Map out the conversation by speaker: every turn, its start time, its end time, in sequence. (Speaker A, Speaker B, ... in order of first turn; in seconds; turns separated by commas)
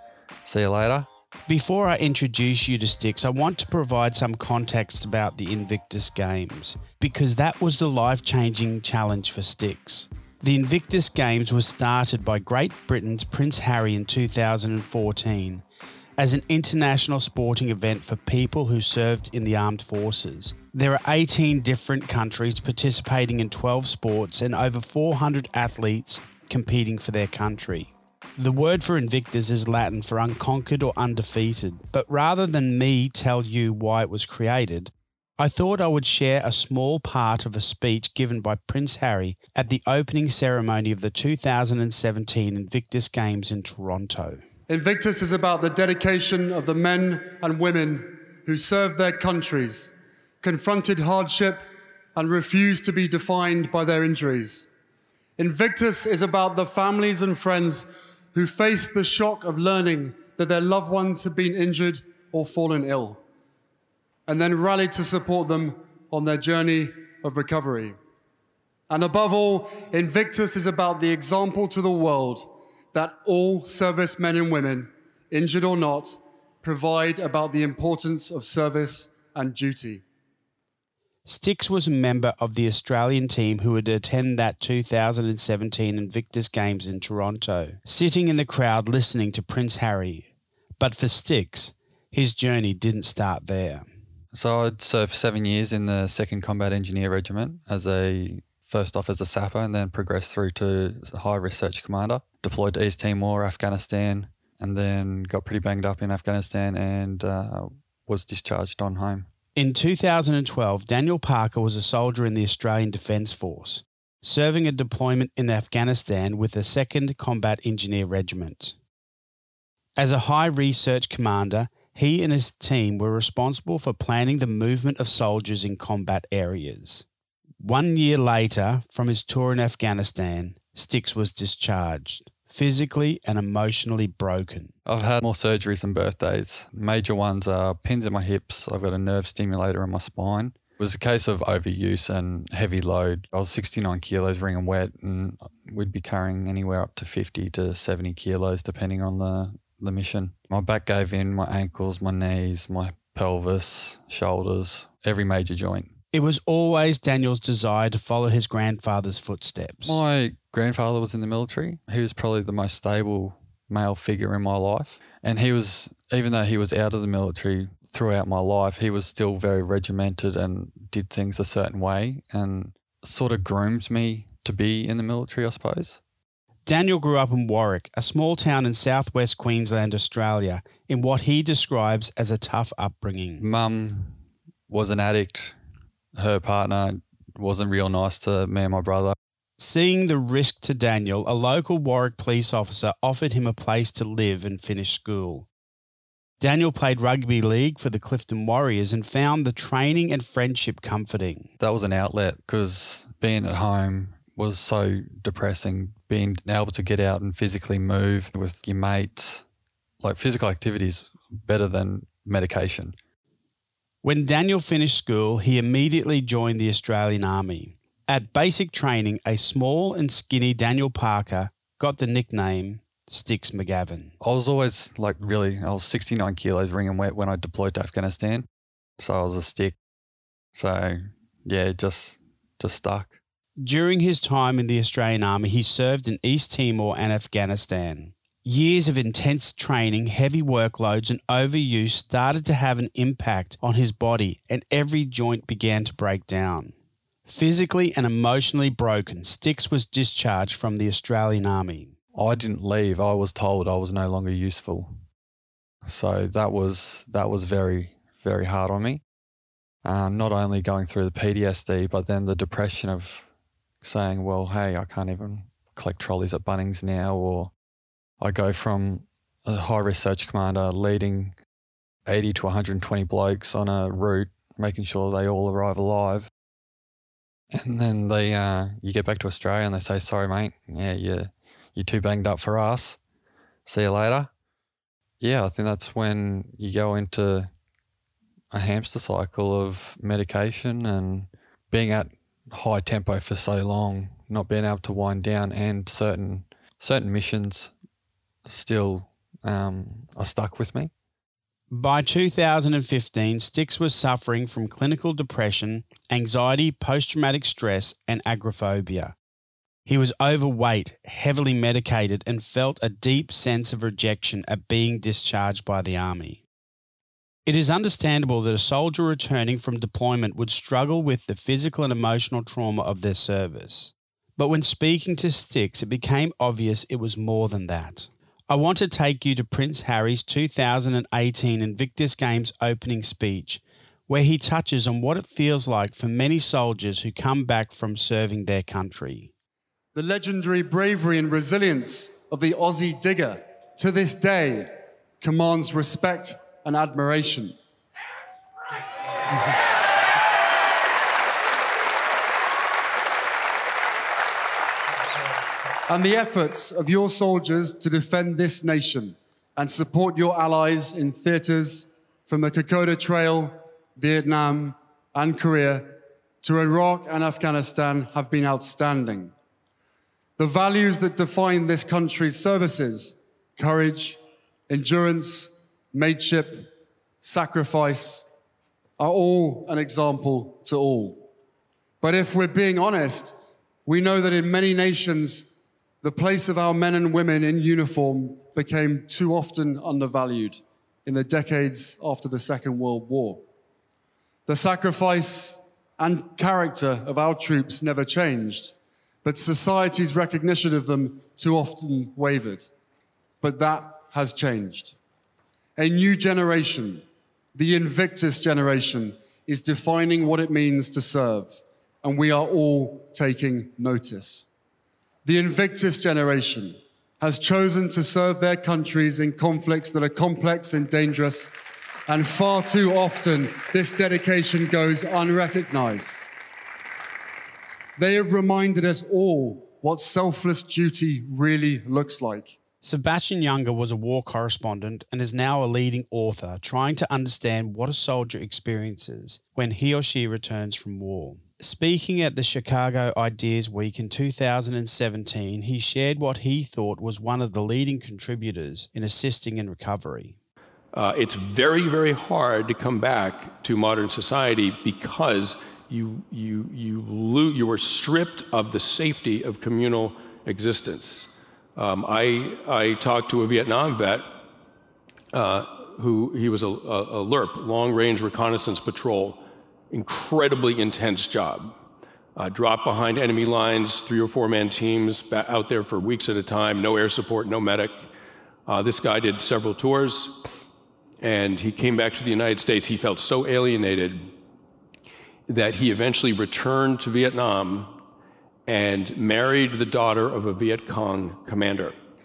Speaker A: 0.4-1.1, Speaker B: 1.5-15.6, Speaker B: 16.2-44.4, Speaker C: 44.7-51.6, Speaker C: 52.1-54.7, Speaker C: 55.4-63.2, Speaker C: 64.3-68.0, Speaker C: 68.9-80.0, Speaker B: 81.2-90.3, Speaker B: 90.8-93.8, Speaker A: 94.3-109.3, Speaker B: 109.5-118.8, Speaker B: 120.0-127.0, Speaker B: 127.6-134.7, Speaker A: 134.8-155.9, Speaker B: 156.1-160.0, Speaker A: 159.8-176.0, Speaker B: 176.7-183.5, Speaker A: 183.4-184.2, Speaker A: 184.7-185.6, Speaker A: 186.1-189.1, Speaker B: 189.6-195.5, Speaker B: 196.4-201.5, Speaker A: 201.6-209.4, Speaker A: 210.0-212.9, Speaker B: 214.0-224.1, Speaker A: 224.2-228.5, Speaker A: 229.0-229.8, Speaker A: 230.5-233.2, Speaker B: 233.6-246.7, Speaker B: 247.2-251.9, Speaker A: 252.1-255.0, Speaker A: 255.8-259.0, Speaker A: 259.8-263.3, Speaker A: 263.8-267.5, Speaker A: 268.2-271.4, Speaker A: 272.1-276.3, Speaker A: 277.5-283.0, Speaker A: 283.6-284.3, Speaker A: 285.2-287.5, Speaker A: 288.5-297.7, Speaker A: 298.4-300.9, Speaker B: 301.7-309.1, Speaker B: 309.9-316.4, Speaker B: 317.4-339.3, Speaker C: 339.9-347.5, Speaker C: 355.9-369.3, Speaker C: 370.4-374.2, Speaker C: 374.7-376.7, Speaker C: 377.2-378.2, Speaker C: 379.0-381.2, Speaker C: 382.0-393.4, Speaker C: 394.5-402.7, Speaker C: 403.4-404.9, Speaker C: 405.8-414.5, Speaker C: 415.2-421.5, Speaker C: 422.1-426.3, Speaker C: 428.0-432.5, Speaker B: 432.8-450.4, Speaker D: 450.9-464.3, Speaker D: 465.3-471.8, Speaker D: 472.4-478.1, Speaker D: 478.7-480.4, Speaker D: 481.2-484.3, Speaker D: 485.5-487.9, Speaker D: 488.7-491.9